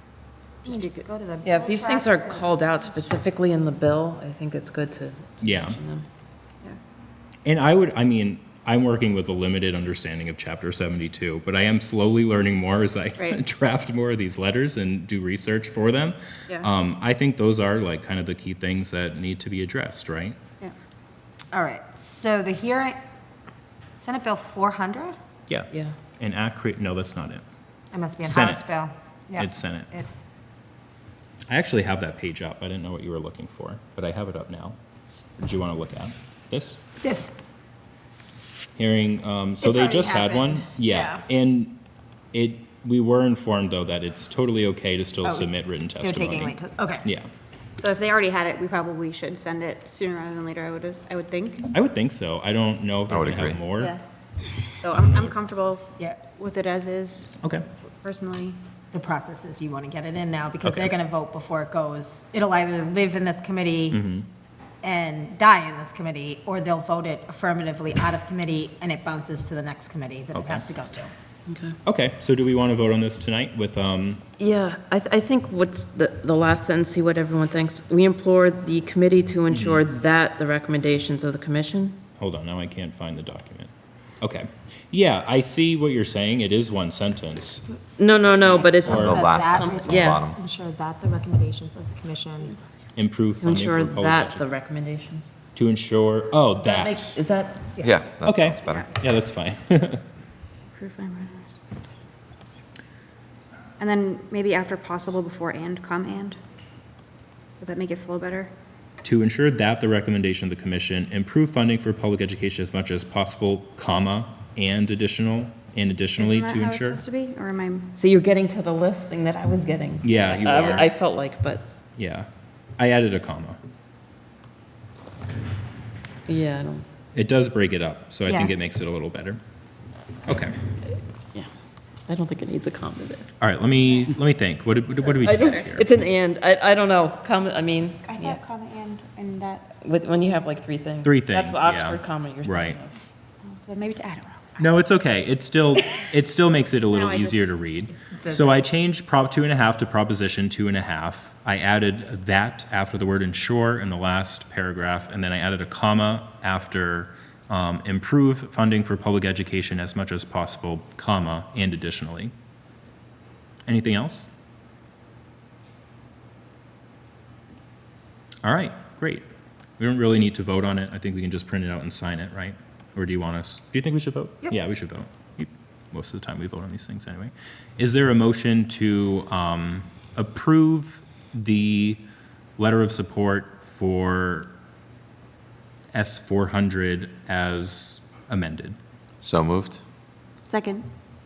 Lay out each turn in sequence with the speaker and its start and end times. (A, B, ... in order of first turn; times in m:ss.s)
0:00.6-0:02.7 A
0:00.7-0:01.0 B
0:01.4-0:06.0 C
0:05.4-0:05.8 D
0:07.4-0:20.4 D
0:21.5-0:23.0 A
0:24.0-0:25.2 A
0:25.5-0:27.4 D
0:25.7-0:26.0 C
0:27.9-0:30.2 A
0:28.2-0:28.6 D
0:29.4-0:29.9 D
0:31.5-0:34.8 D
0:35.4-0:36.8 D
0:37.0-0:37.4 A
0:38.8-0:41.8 D
0:39.6-0:41.3 A
0:42.3-0:47.3 D
0:45.2-0:47.1 A
0:47.8-0:51.7 B
0:51.7-0:53.9 D
0:53.1-0:53.6 E
0:54.8-0:57.3 B
0:55.0-0:55.4 D
0:58.0-0:58.6 B
0:58.9-1:04.0 A
1:00.6-1:00.9 D
1:03.9-1:04.3 D
1:04.8-1:11.1 A
1:10.4-1:10.6 D
1:11.5-1:11.8 C
1:11.8-1:14.2 D
1:14.4-1:22.0 C
1:19.5-1:19.9 D
1:22.2-1:23.7 D
1:24.2-1:27.6 D
1:28.0-1:30.2 C
1:28.5-1:32.6 A
1:28.8-1:30.4 E
1:28.9-1:29.2 D
1:33.0-1:34.4 D
1:33.4-1:35.3 C
1:35.6-1:37.2 D
1:36.6-1:37.7 C
1:37.8-1:39.0 E
1:38.2-1:40.0 D
1:40.8-1:41.6 B
1:43.8-1:46.4 B
1:47.6-1:48.5 B
1:49.0-1:57.0 D
1:56.2-1:57.9 B
1:58.0-2:01.6 C
2:00.0-2:00.9 D
2:02.0-2:02.3 D
2:02.8-2:03.6 D
2:06.3-2:06.8 C
2:07.2-2:09.4 D
2:10.3-2:10.6 D
2:12.1-2:13.3 C
2:13.4-2:15.9 D
2:15.2-2:18.4 C
2:18.0-2:19.8 B
2:19.8-2:23.0 C
2:21.0-2:22.8 D
2:23.4-2:24.7 B
2:24.6-2:42.3 D
2:26.9-2:27.5 B
2:43.7-2:44.3 D
2:48.4-2:49.3 D
2:49.8-3:02.0 D
3:02.6-3:04.5 D
3:05.9-3:08.8 D
3:09.2-3:09.8 E
3:10.4-3:10.9 B